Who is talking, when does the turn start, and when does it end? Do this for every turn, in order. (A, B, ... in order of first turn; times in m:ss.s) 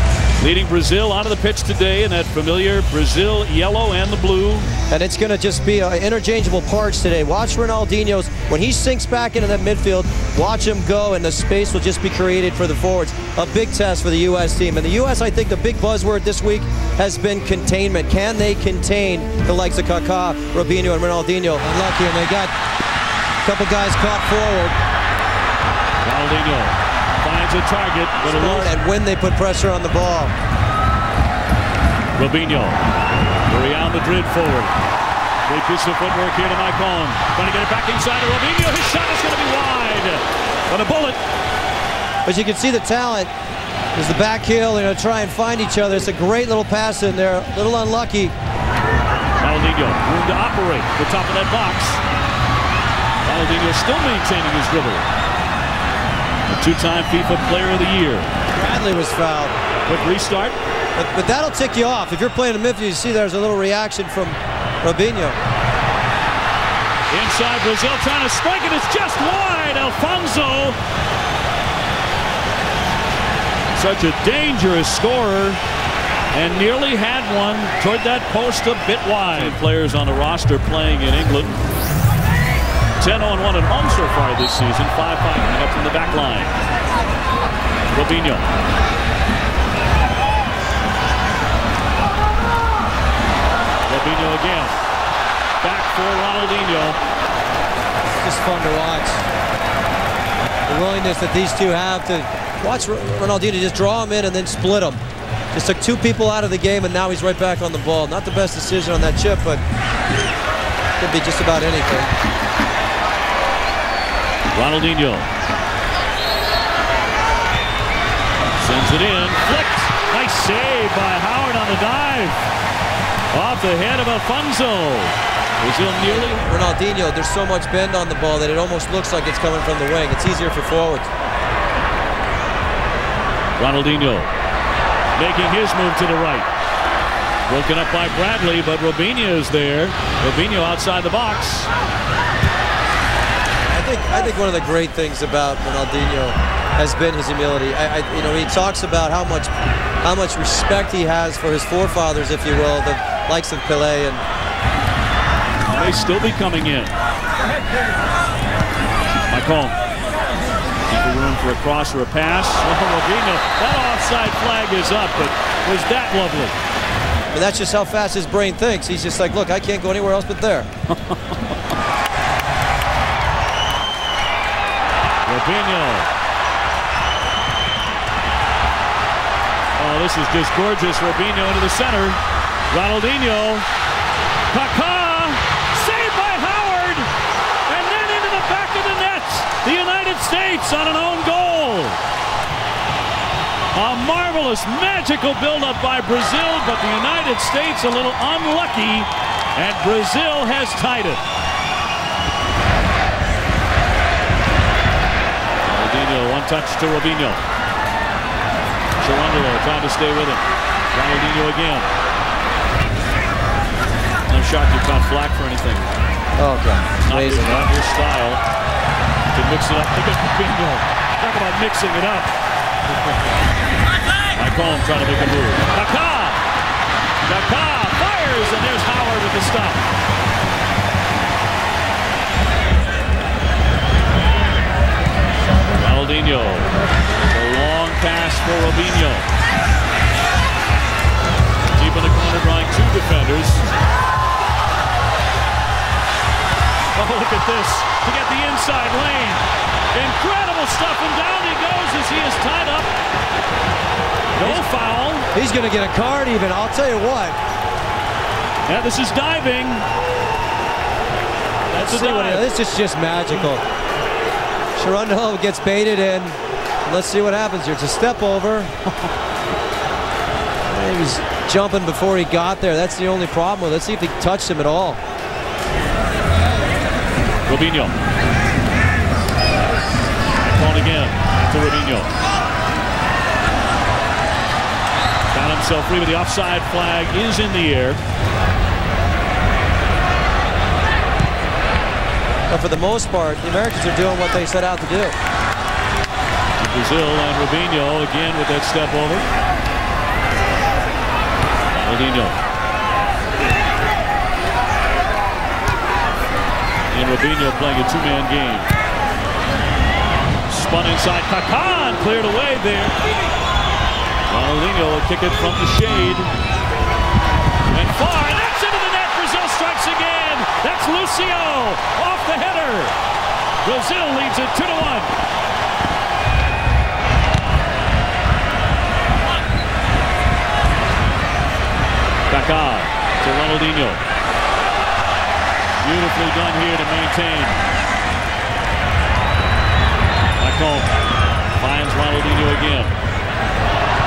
0:00.4-0:04.7 A
0:04.9-0:22.5 B
0:23.4-0:24.8 B
0:26.0-0:28.7 A
0:28.2-0:30.3 B
0:32.2-0:32.8 A
0:33.5-0:34.7 A
0:35.5-0:41.2 A
0:42.3-0:43.3 B
0:44.0-0:48.3 B
0:49.4-0:52.0 A
0:53.2-0:55.1 A
0:56.5-0:58.3 A
0:58.5-0:59.5 B
0:59.9-1:00.6 A
1:01.0-1:05.4 B
1:07.1-1:10.8 A
1:13.8-1:15.6 A
1:16.3-1:21.6 A
1:23.0-1:26.5 A
1:27.9-1:28.5 A
1:33.9-1:34.8 A
1:35.6-1:37.0 A
1:38.2-1:39.2 B
1:40.7-1:45.0 B
1:45.5-1:49.6 B
1:51.0-1:52.1 B
1:54.5-1:55.3 A
1:58.6-2:02.4 A
2:03.3-2:06.4 A
2:06.1-2:11.1 B
2:13.6-2:14.3 A
2:15.2-2:16.5 A
2:17.5-2:21.7 A
2:23.7-2:29.5 B
2:30.0-2:34.2 B
2:35.7-2:36.9 A
2:39.3-2:39.8 A
2:40.9-2:46.6 A
2:47.3-2:50.7 B
2:51.1-2:51.3 A
2:55.2-2:56.1 A
2:59.8-3:02.2 A
3:02.7-3:03.7 A
3:04.5-3:07.1 A
3:07.7-3:12.0 A
3:13.7-3:21.2 A
3:25.7-3:27.4 A
3:29.0-3:31.9 A
3:34.3-3:35.9 A
3:36.4-3:37.7 B
3:37.0-3:38.4 A
3:39.3-3:42.3 A
3:44.3-3:46.4 A
3:47.2-3:49.8 A
3:55.7-3:59.2 A
4:01.7-4:03.6 A
4:06.9-4:12.9 A
4:14.4-4:15.3 A
4:15.3-4:17.4 B
4:18.7-4:19.9 A
4:21.7-4:22.5 A
4:21.8-4:23.6 B
4:24.8-4:28.7 B
4:30.7-4:35.0 B
4:37.4-4:37.9 A
4:40.4-4:42.1 A
4:45.3-4:48.0 A
4:52.5-4:55.1 B
4:56.6-4:59.2 A
5:01.8-5:02.4 A
5:06.9-5:08.7 A
5:10.5-5:12.9 A
5:14.3-5:16.3 A
5:17.7-5:22.9 A
5:23.6-5:25.1 A
5:32.3-5:34.0 A
5:35.8-5:37.6 A
5:40.4-5:40.9 A
5:41.6-5:42.9 A